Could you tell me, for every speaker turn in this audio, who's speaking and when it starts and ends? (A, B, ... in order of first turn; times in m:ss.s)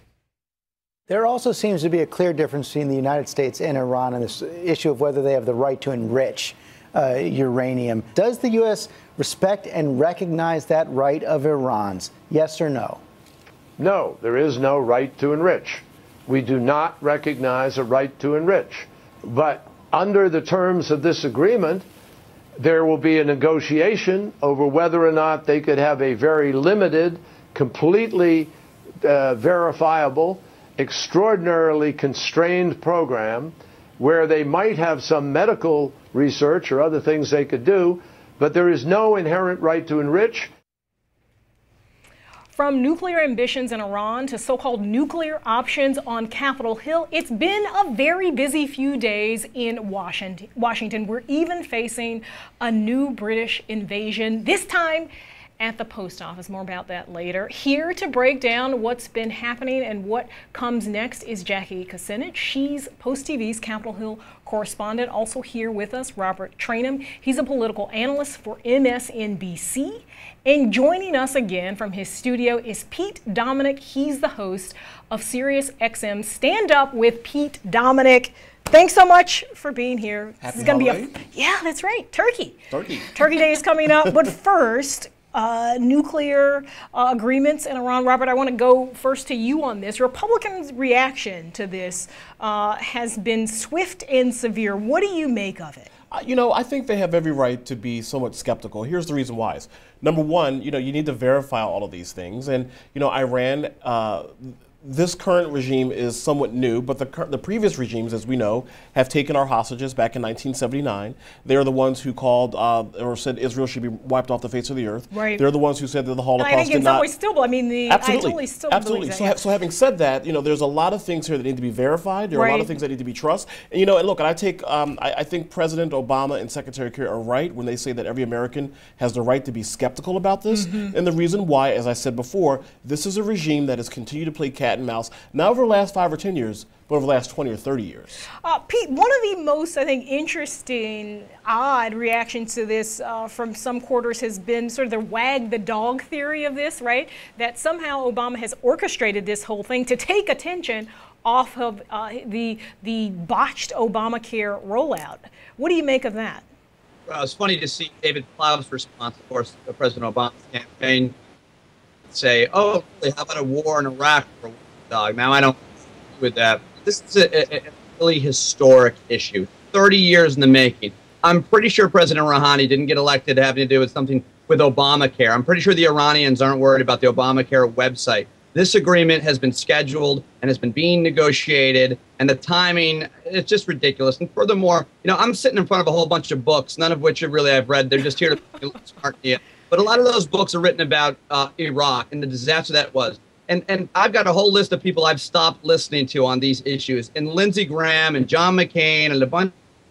0:01.1-0:13.0 A
0:13.8-0:21.8 B
0:22.6-0:28.5 B
0:29.0-0:40.5 B
0:42.5-1:22.6 C
1:20.4-1:21.1 D
1:22.7-1:23.1 D
1:23.1-1:35.9 C
1:36.1-1:57.1 D
1:55.1-1:55.4 C
1:56.4-1:59.4 C
1:57.9-2:18.2 D
2:02.3-2:02.7 C
2:10.5-2:10.9 C
2:18.4-2:36.4 C
2:37.1-2:41.1 E
2:42.1-2:45.6 E
2:46.1-3:19.5 E